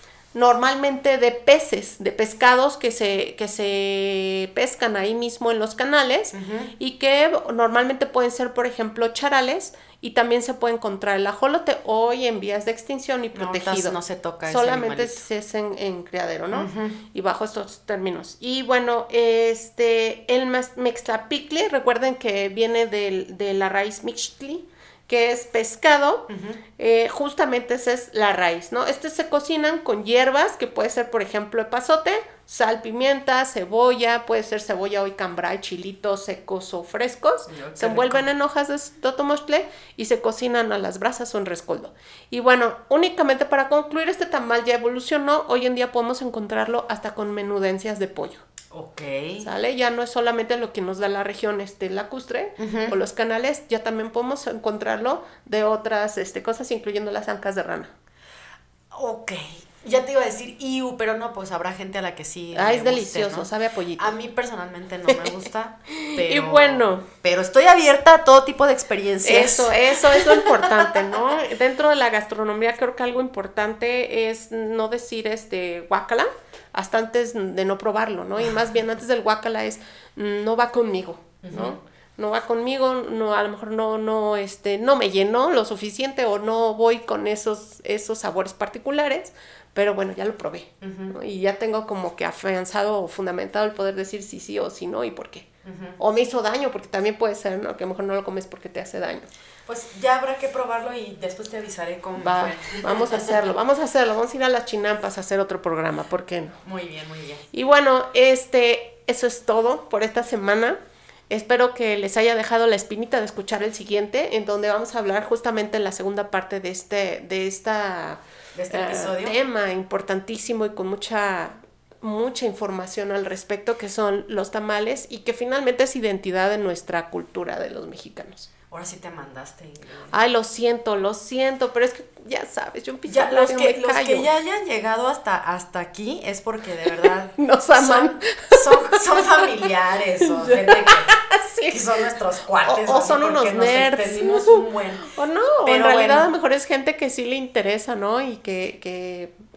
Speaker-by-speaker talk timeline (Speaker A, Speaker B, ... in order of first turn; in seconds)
Speaker A: 0.3-48.4, 49.4-57.9, 62.5-64.1, 65.1-65.4, 65.9-67.1, 69.2-99.3, 102.2-106.6, 107.5-110.8, 111.3-128.5, 130.1-134.3, 137.4-139.5, 140.2-142.1, 142.6-149.3
Speaker B: 6.3-6.7, 13.3-15.2, 16.5-17.0, 26.3-26.6, 37.5-38.3, 48.7-49.5, 52.6-52.9, 58.9-71.2, 81.4-81.8, 90.8-91.1, 95.7-96.0, 99.7-103.5, 106.6-107.5, 118.5-119.4, 128.7-130.1, 133.1-141.2, 141.7-145.1, 145.7-146.3